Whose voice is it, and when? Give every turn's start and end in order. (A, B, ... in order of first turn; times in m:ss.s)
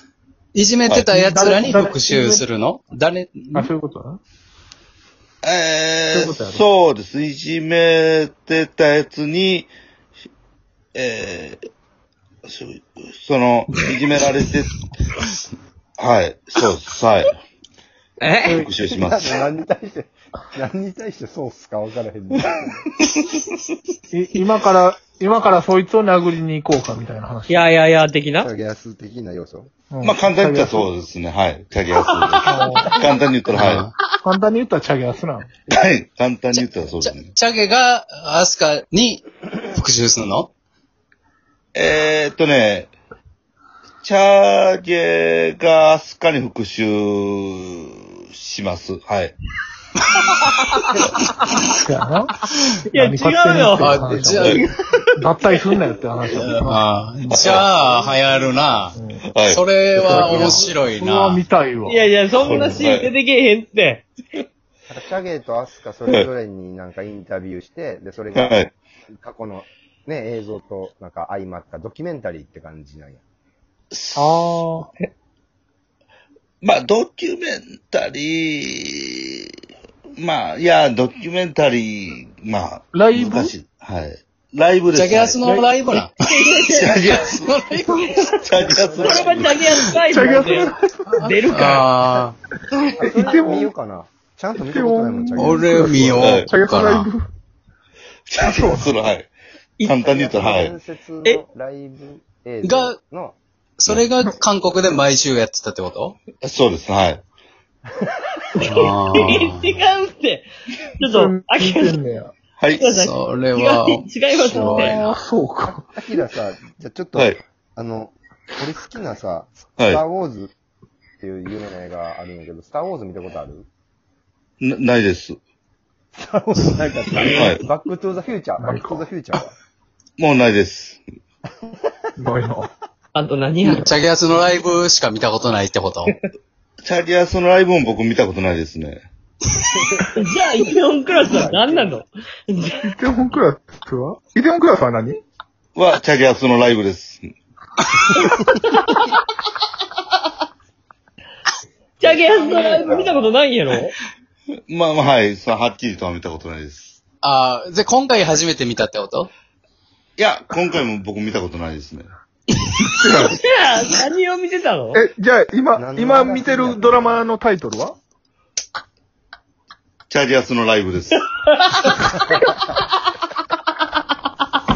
0:00.5-0:03.7 A
0:01.1-0:02.4 B
0:03.5-0:04.2 B
0:05.4-0:09.7 C
0:06.1-0:06.6 B
0:10.9-0:11.6 C
0:12.4-0:14.7 C
0:16.0-0:17.4 C
0:18.2-0:18.7 D
0:18.4-0:19.3 C
0:18.9-0:22.8 E
0:24.1-0:27.6 B
0:27.5-0:28.5 D
0:28.4-0:29.7 E
0:29.9-0:30.9 B
0:30.0-0:33.9 C
0:32.4-0:33.0 B
0:33.5-0:33.9 A
0:34.2-0:35.5 B
0:35.7-0:37.3 C
0:36.5-0:40.5 A
0:41.7-0:42.9 C
0:44.0-0:49.3 C
0:50.3-0:51.0 D
0:51.8-0:52.3 B
0:52.8-0:54.6 D
0:52.9-0:54.6 B
0:53.8-0:54.6 A
0:55.2-0:56.8 B
0:56.3-0:59.0 A
0:57.3-0:57.7 C
0:57.8-0:58.8 E
0:58.9-0:59.3 B
0:59.3-1:00.5 C
0:59.5-1:01.4 A
1:00.0-1:02.8 B
1:00.2-1:00.5 E
1:01.8-1:04.0 D
1:02.4-1:03.1 C
1:04.9-1:08.6 E
1:08.3-1:08.7 C
1:09.2-1:13.2 E
1:13.9-1:14.6 C
1:14.2-1:14.9 B
1:16.6-1:19.6 C
1:20.2-1:25.4 C
1:22.9-1:23.5 B
1:24.9-1:26.2 A
1:25.4-1:25.9 B
1:26.3-1:27.0 D
1:26.7-1:27.6 C
1:27.1-1:28.0 A
1:28.1-1:28.4 D
1:28.2-1:29.8 C
1:28.8-1:29.5 E
1:29.0-1:31.9 D
1:30.0-1:31.2 B
1:31.1-1:32.4 A
1:32.8-1:33.2 D
1:33.0-1:36.3 E
1:33.0-1:33.7 B
1:34.6-1:37.3 B
1:35.4-1:37.1 A
1:36.2-1:36.5 C
1:38.3-1:39.3 C
1:38.4-1:38.9 B
1:39.8-1:40.8 C
1:40.0-1:43.4 E
1:42.6-1:43.0 A
1:43.8-1:46.2 A
1:46.4-1:47.2 C
1:48.6-1:50.5 D
1:48.6-1:49.8 A
1:51.0-1:52.0 D
1:51.0-1:52.3 B
1:52.6-1:52.9 C
1:52.8-1:55.2 D
1:52.9-1:55.1 A
1:55.0-1:55.8 B
1:55.6-2:00.5 E
2:01.2-2:03.7 E
2:04.6-2:05.4 C
2:06.2-2:09.5 E
2:07.3-2:07.6 C
2:08.6-2:09.1 B
2:10.2-2:11.0 C
2:12.2-2:12.7 B
2:13.1-2:13.9 D
2:13.6-2:16.1 A
2:16.8-2:19.0 C
2:19.7-2:20.1 E
2:20.1-2:22.9 D
2:21.3-2:22.0 E
2:22.8-2:25.2 B
2:25.7-2:27.3 C
2:28.1-2:29.2 D
2:32.0-2:33.9 D
2:32.1-2:33.1 E
2:32.1-2:33.0 C
2:34.7-2:37.0 C
2:37.2-2:39.3 A
2:40.2-2:42.1 C
2:43.0-2:43.4 B
2:43.2-2:45.0 D
2:44.9-2:48.0 B
2:45.8-2:47.2 E
2:50.1-2:51.2 C
2:51.5-2:52.4 D